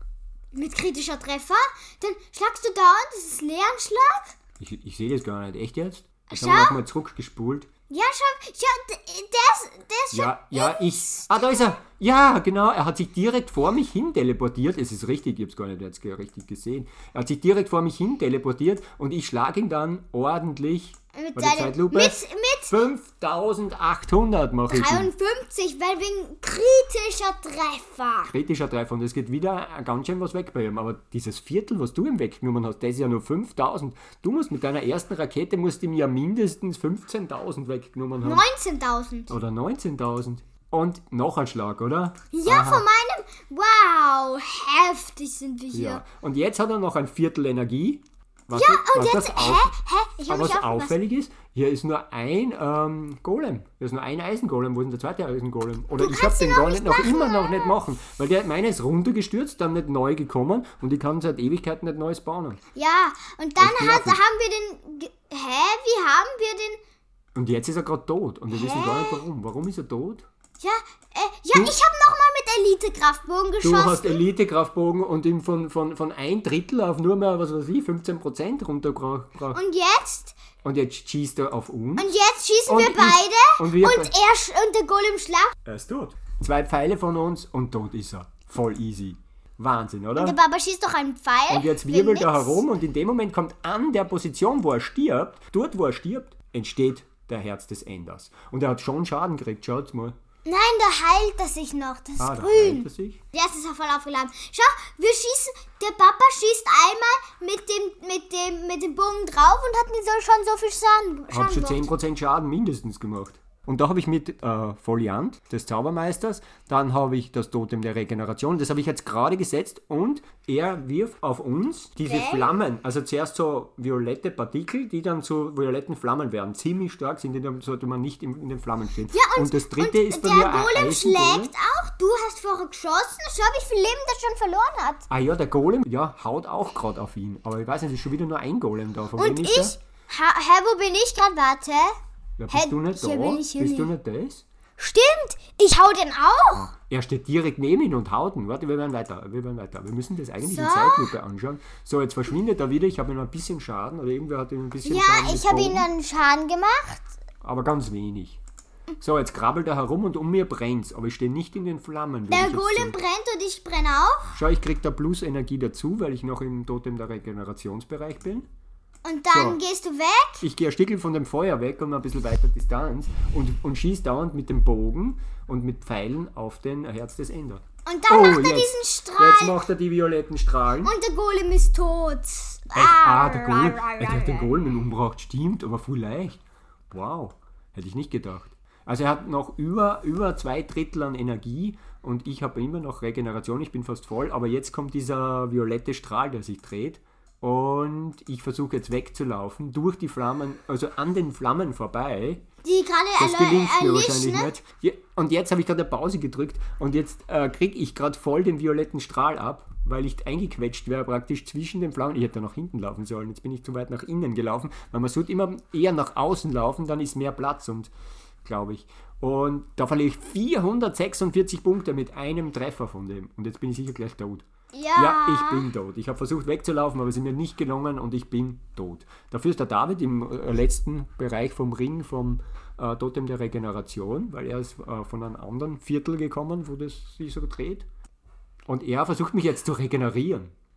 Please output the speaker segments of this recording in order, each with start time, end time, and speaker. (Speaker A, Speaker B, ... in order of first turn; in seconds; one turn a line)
Speaker A: 0.5-4.3
Speaker B: 4.6-7.7
Speaker A: 6.3-6.8
Speaker A: 7.9-11.7
Speaker B: 10.1-25.1
Speaker A: 21.1-22.8
Speaker A: 24.7-28.3
Speaker B: 28.3-38.4
Speaker A: 38.2-39.3
Speaker B: 39.3-42.9
Speaker A: 42.3-46.0
Speaker B: 45.7-62.6
Speaker A: 48.5-51.0
Speaker A: 56.0-57.7
Speaker A: 62.7-66.8
Speaker B: 63.6-64.2
Speaker B: 67.3-70.3
Speaker A: 68.5-69.2
Speaker A: 70.6-74.2
Speaker B: 73.6-79.6
Speaker A: 79.5-80.3
Speaker B: 80.6-82.1
Speaker A: 82.0-85.5
Speaker B: 82.7-84.1
Speaker B: 85.6-90.4
Speaker A: 90.2-92.6
Speaker B: 91.5-100.2
Speaker A: 100.4-111.9
Speaker B: 102.2-103.2
Speaker B: 111.3-131.5
Speaker A: 122.0-122.5
Speaker A: 129.1-135.1
Speaker B: 135.1-139.8
Speaker A: 139.2-141.9
Speaker B: 142.4-144.4
Speaker A: 142.5-143.9
Speaker A: 144.8-146.7
Speaker B: 146.6-155.9
Speaker A: 150.4-151.1
Speaker A: 154.8-157.0
Speaker B: 157.4-158.4
Speaker B: 159.0-163.0
Speaker A: 162.3-164.3
Speaker B: 164.3-168.5
Speaker A: 169.0-170.4
Speaker B: 169.3-169.6
Speaker B: 170.4-180.9
Speaker A: 177.8-179.6
Speaker A: 180.8-184.6
Speaker B: 182.7-202.4
Speaker A: 202.6-204.5
Speaker B: 203.2-217.9
Speaker B: 218.4-237.9
Speaker A: 224.7-225.7
Speaker B: 238.7-240.5